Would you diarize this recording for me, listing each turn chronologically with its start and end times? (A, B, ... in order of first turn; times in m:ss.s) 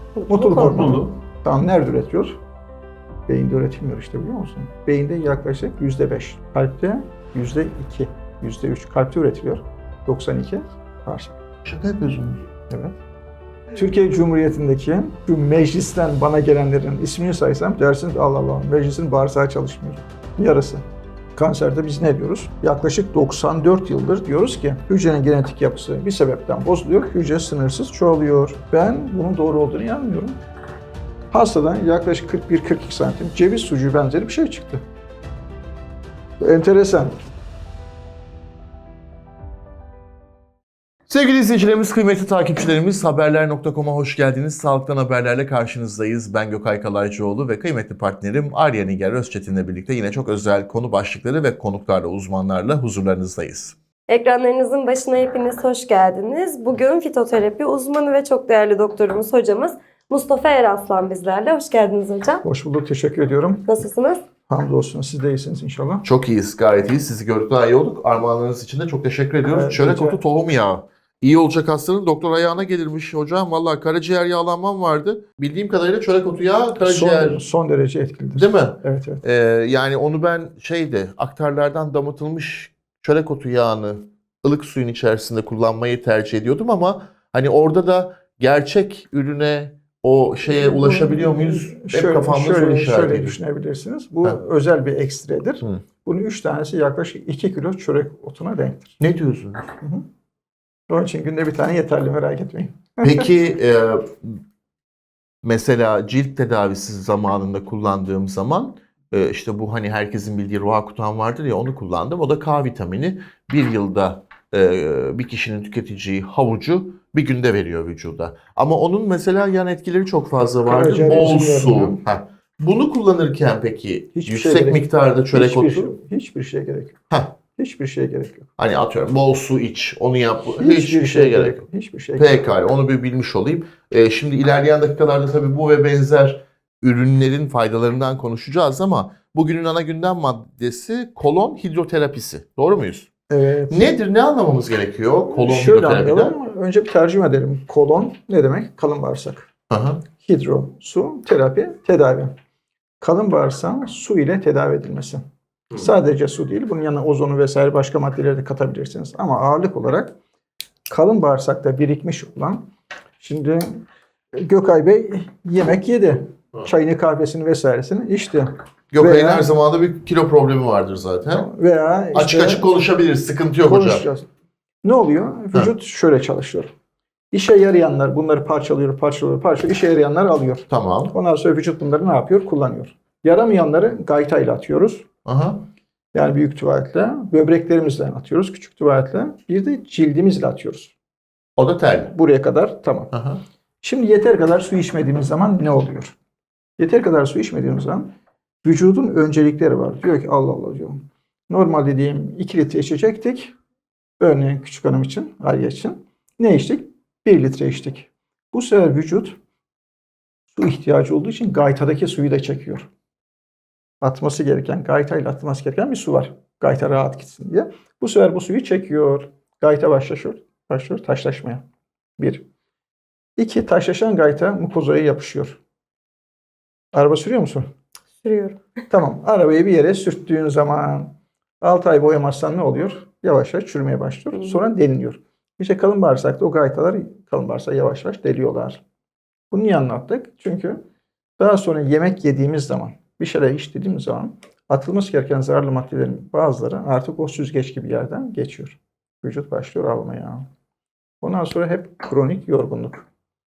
0:00.2-0:00.9 A
0:00.3-0:02.4 B
0:00.6-0:01.1 C
0:03.3-0:11.4 B
0:11.6-0:12.4 C
0:12.7-0:13.0 B
0:13.7-0:20.8 B
0:21.4-0:30.4 B
0:31.3-0:34.8 B
0:36.4-0:37.2 B
0:41.1-0:53.7 C
0:54.1-1:02.4 A
1:02.4-1:03.7 B
1:03.7-1:04.2 A
1:04.5-1:06.0 B
1:06.0-1:17.4 C
1:09.5-1:10.2 B
1:16.8-1:19.2 B
1:18.4-1:33.4 C
1:30.5-1:39.0 B
1:39.0-1:39.7 C
1:39.8-1:40.0 B
1:40.9-1:43.3 B
1:43.0-1:44.4 C
1:45.4-2:05.9 C
2:00.7-2:02.0 B
2:04.1-2:08.5 B
2:08.6-2:11.6 C
2:10.5-2:12.4 B
2:12.2-2:23.1 C
2:23.3-2:23.9 B
2:23.7-2:26.4 C
2:25.3-2:29.5 B
2:29.7-2:30.0 C
2:30.1-2:32.3 B
2:33.0-2:35.2 B
2:35.7-2:40.2 B
2:40.9-2:49.5 B
2:48.9-2:51.5 C
2:51.3-2:52.6 B
2:52.1-2:54.0 C
2:53.6-2:54.3 B
2:54.8-2:56.7 B
2:57.3-3:05.1 B
3:00.7-3:01.1 C
3:05.2-3:05.6 C
3:06.1-3:10.9 B
3:11.6-3:12.1 C
3:12.1-3:13.1 B
3:13.1-3:13.4 C
3:13.8-3:16.1 B
3:16.8-3:23.5 B
3:24.2-3:29.4 B
3:30.5-3:32.9 B
3:34.0-3:41.6 B
3:42.2-3:42.4 B
3:43.4-3:45.6 B
3:46.9-3:47.7 B
3:48.2-3:48.6 A
3:48.9-3:58.8 B
3:54.3-3:54.6 A
3:59.5-4:00.8 B
4:01.4-4:10.5 B
4:11.2-4:13.0 B